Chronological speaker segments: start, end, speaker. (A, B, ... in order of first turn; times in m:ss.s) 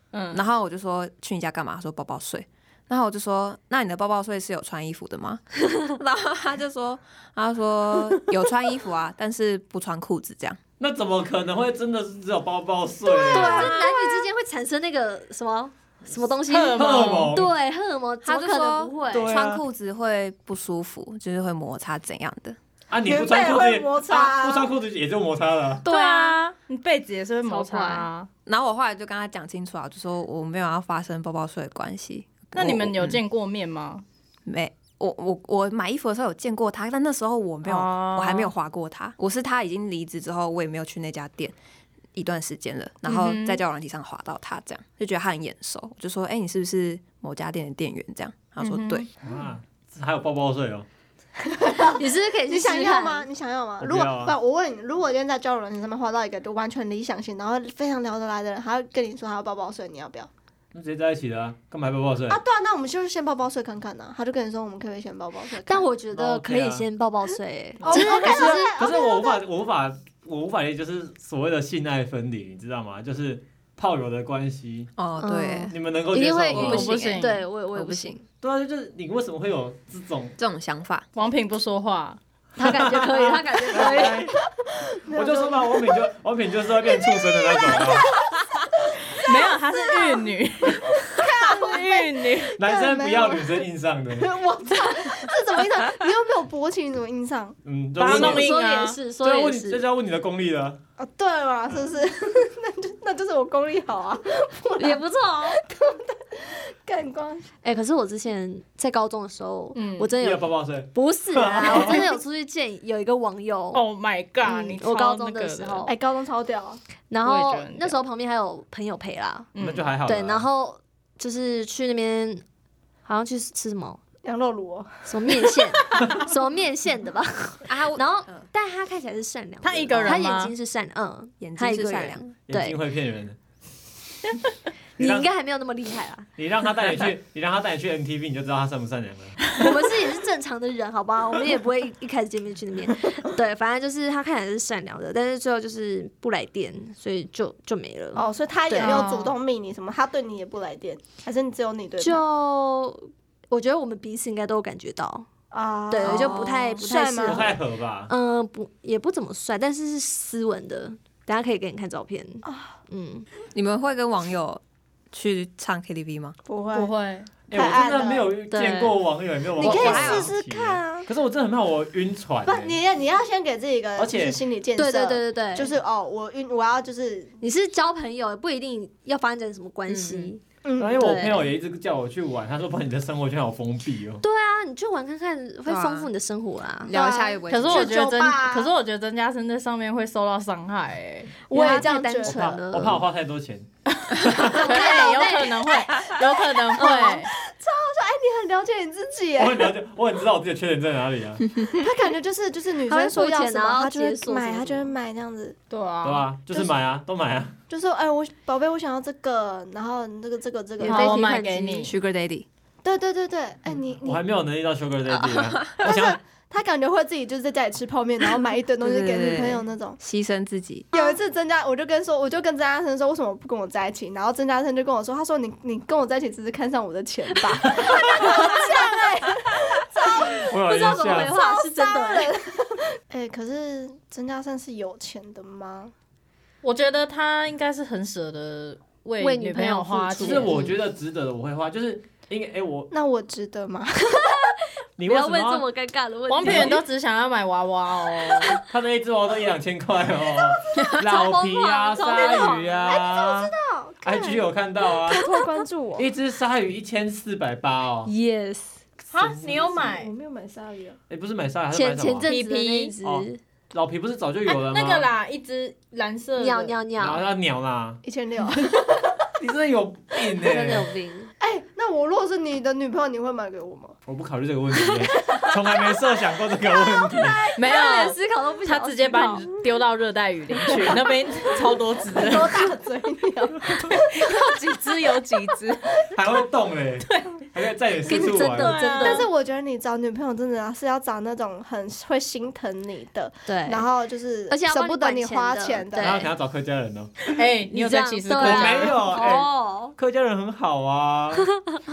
0:00.1-0:00.4 A
0:00.3-0:10.6 B
0:10.8-0:13.7 C
0:13.1-0:13.9 D
0:13.2-0:19.3 E
0:13.6-0:13.9 B
0:16.5-0:17.4 A
0:16.7-0:17.6 C
0:18.2-0:22.6 B
0:19.1-0:19.6 C
0:22.9-0:25.8 C
0:23.0-0:24.7 D
0:25.9-0:26.4 E
0:25.9-0:28.3 A
0:25.9-0:26.3 B
0:27.4-0:28.1 E
0:28.4-0:33.2 B
0:32.5-0:34.0 A
0:34.4-0:41.6 B
0:37.6-0:38.5 A
0:42.1-0:49.1 B
0:43.0-0:43.6 A
0:48.6-0:49.3 A
0:49.2-0:50.9 C
0:51.4-1:00.3 D
0:51.9-0:53.3 E
0:53.8-0:54.4 C
1:00.7-1:02.4 C
1:02.3-1:05.9 D
1:05.6-1:08.8 E
1:06.1-1:06.9 C
1:07.8-1:09.4 D
1:07.9-1:14.9 C
1:15.0-1:15.7 B
1:15.2-1:18.2 E
1:15.7-1:16.9 C
1:16.5-1:17.2 B
1:16.6-1:17.4 A
1:17.7-1:18.2 B
1:18.4-1:20.4 C
1:20.4-1:21.1 B
1:21.2-1:22.2 A
1:22.6-1:24.3 E
1:22.6-1:24.4 C
1:24.8-1:26.1 D
1:25.1-1:28.1 C
1:26.9-1:28.3 D
1:29.2-1:32.6 A
1:31.1-1:33.6 D
1:32.6-1:34.3 C
1:34.2-1:37.6 D
1:37.6-1:38.5 C
1:38.0-1:39.0 A
1:38.0-1:39.8 E
1:39.2-1:40.8 C
1:41.0-1:47.5 D
1:44.8-1:45.6 E
1:47.6-1:53.8 E
1:49.7-1:50.1 A
1:50.2-1:52.0 C
1:51.6-1:52.0 D
1:53.7-1:55.9 A
1:54.4-1:55.9 E
1:55.9-1:56.8 D
1:57.1-1:59.5 E
1:57.2-1:58.0 A
1:59.6-1:59.9 A
1:59.6-2:00.5 C
2:00.0-2:02.4 E
2:03.0-2:04.0 E
2:04.2-2:06.0 D
2:05.1-2:12.8 E
2:07.6-2:08.5 B
2:09.6-2:10.5 A
2:11.4-2:12.2 B
2:12.5-2:13.4 C
2:15.0-2:16.3 E
2:15.0-2:15.3 C
2:16.4-2:19.6 C
2:19.5-2:29.1 E
2:28.1-2:32.2 D
2:28.8-2:29.3 A
2:32.0-2:35.3 E
2:35.5-2:37.6 D
2:35.9-2:37.6 E
2:36.0-2:36.7 B
2:37.2-2:38.1 C
2:38.1-2:43.2 E
2:42.4-2:42.8 D
2:43.5-2:46.4 B
2:46.5-2:46.9 D
2:46.7-2:47.3 A
2:47.5-2:52.8 C
2:47.5-2:48.3 D
2:48.5-2:49.0 E
2:49.6-2:51.1 D
2:49.6-2:50.3 B
2:52.4-2:57.4 D
2:54.0-2:54.4 C
2:54.8-2:55.7 E
2:57.4-3:00.4 E
2:59.9-3:00.3 B
3:00.6-3:01.1 D
3:00.8-3:04.2 C
3:01.0-3:01.4 E
3:04.2-3:06.9 E
3:05.6-3:06.1 B
3:06.8-3:08.1 B
3:06.9-3:08.7 D
3:07.5-3:11.3 A
3:11.5-3:12.4 D
3:11.5-3:13.0 E
3:12.2-3:14.7 C
3:14.0-3:17.3 A
3:14.5-3:15.6 E
3:14.7-3:15.2 D
3:16.7-3:17.2 E
3:16.8-3:19.7 D
3:19.4-3:21.5 C
3:21.6-3:25.6 D
3:22.9-3:24.9 E
3:25.7-3:26.3 A
3:26.0-3:27.6 C
3:27.7-3:31.2 D
3:30.8-3:31.9 E
3:30.8-3:31.9 A
3:30.9-3:32.4 B
3:32.8-3:34.2 D
3:34.0-3:36.2 C
3:35.1-3:35.7 B
3:35.8-3:40.0 D
3:38.8-3:40.9 B
3:40.9-3:50.5 D
3:48.2-3:48.6 E
3:50.4-3:51.3 C
3:50.5-3:52.4 E
3:51.0-3:55.9 D
3:56.6-4:00.5 A
3:59.2-4:00.8 E
4:00.2-4:02.9 C
4:02.9-4:04.6 D
4:04.1-4:06.8 E
4:05.0-4:05.6 C
4:06.3-4:08.6 A
4:06.4-4:06.8 C
4:08.4-4:08.6 E
4:08.7-4:15.2 C
4:10.9-4:12.9 E
4:12.1-4:16.1 D
4:16.0-4:18.1 C
4:18.0-4:18.8 E
4:19.1-4:19.6 C
4:19.1-4:20.1 A
4:19.5-4:21.0 D
4:21.1-4:22.3 C
4:21.7-4:23.4 E
4:22.2-4:22.9 A
4:23.0-4:25.1 C
4:24.7-4:26.8 A
4:26.4-4:27.2 E
4:27.0-4:28.0 C
4:28.0-4:29.1 D
4:29.4-4:30.9 C
4:30.4-4:31.3 E
4:31.4-4:34.0 D
4:34.1-4:37.4 C
4:36.8-4:37.6 D
4:37.6-4:42.6 A
4:37.6-4:39.6 E
4:42.1-4:44.3 D
4:43.8-4:45.9 A
4:46.1-4:48.8 C
4:47.0-4:47.4 A
4:48.1-4:49.3 E
4:48.1-4:49.3 A
4:48.1-4:56.2 D
4:53.5-4:53.9 E
4:54.5-4:56.3 E
4:56.0-4:57.2 C
4:57.4-4:59.3 A
4:57.7-5:00.0 E
4:58.4-5:01.5 C
5:01.4-5:01.8 E